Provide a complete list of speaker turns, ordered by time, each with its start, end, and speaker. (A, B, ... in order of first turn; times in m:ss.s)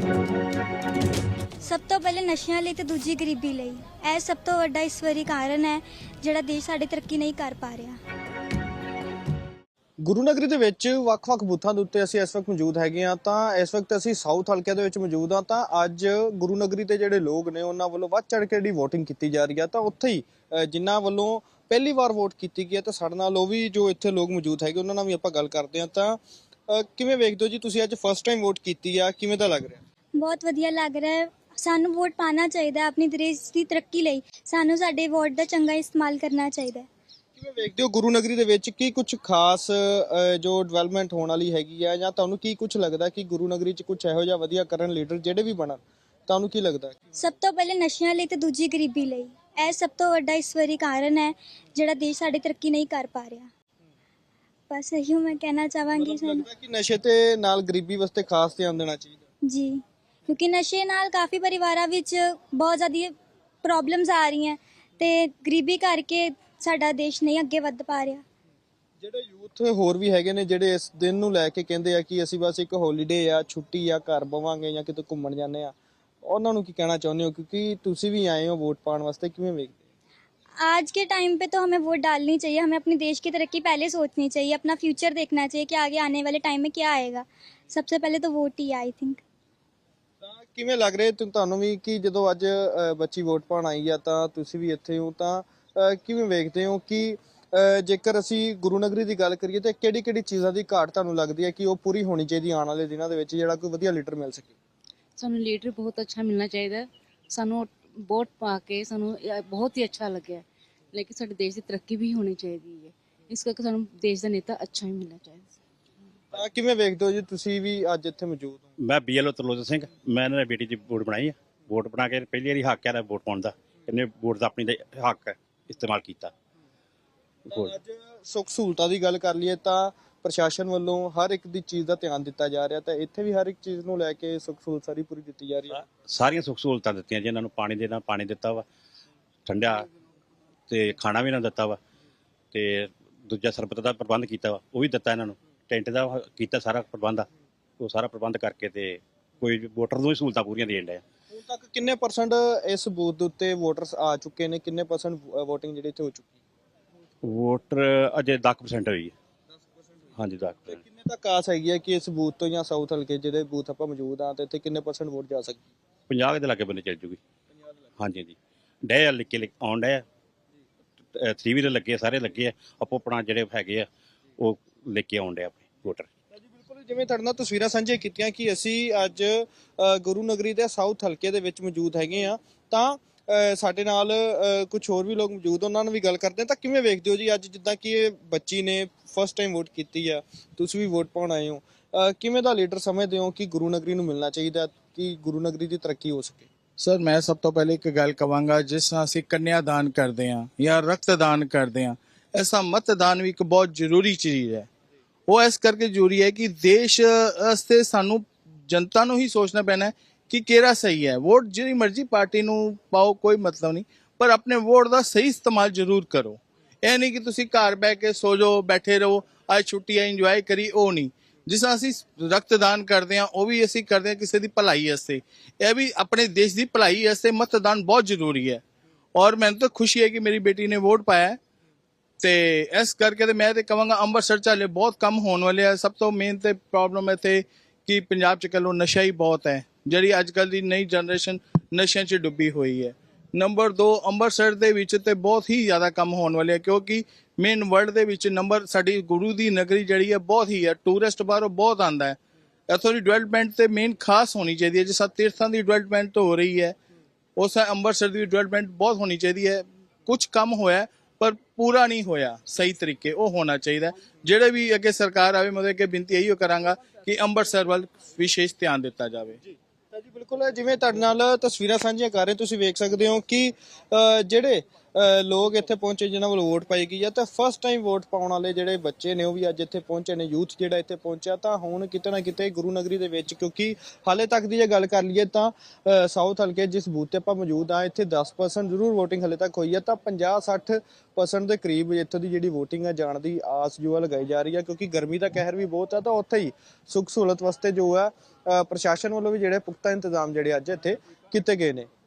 0:01.6-0:08.0 A
0:10.0-0:29.8 B
0:30.2-0:36.9 A
0:37.4-0:47.0 B
0:47.2-0:53.5 A
0:54.7-0:56.4 A
0:56.0-0:59.2 B
0:59.5-1:08.2 A
1:09.0-1:19.8 B
1:20.6-1:29.2 A
1:30.2-1:44.5 B
1:45.2-1:55.6 C
1:56.3-1:58.6 B
1:58.8-2:06.3 D
2:07.5-2:15.8 B
2:15.9-2:18.6 D
2:19.4-2:19.9 D
2:20.7-2:21.8 D
2:22.5-2:27.3 D
2:27.8-2:31.0 D
2:31.3-2:36.3 B
2:37.2-2:39.1 D
2:40.2-2:40.8 D
2:40.7-2:45.6 B
2:46.1-2:47.2 D
2:48.0-2:50.0 D
2:51.1-2:56.1 D
2:56.3-3:16.4 B
3:16.8-3:24.7 E
3:25.3-3:48.6 E
3:49.1-3:51.4 E
3:52.2-4:12.2 E
4:12.7-4:16.8 E
4:17.4-4:29.4 E
4:29.9-5:01.9 B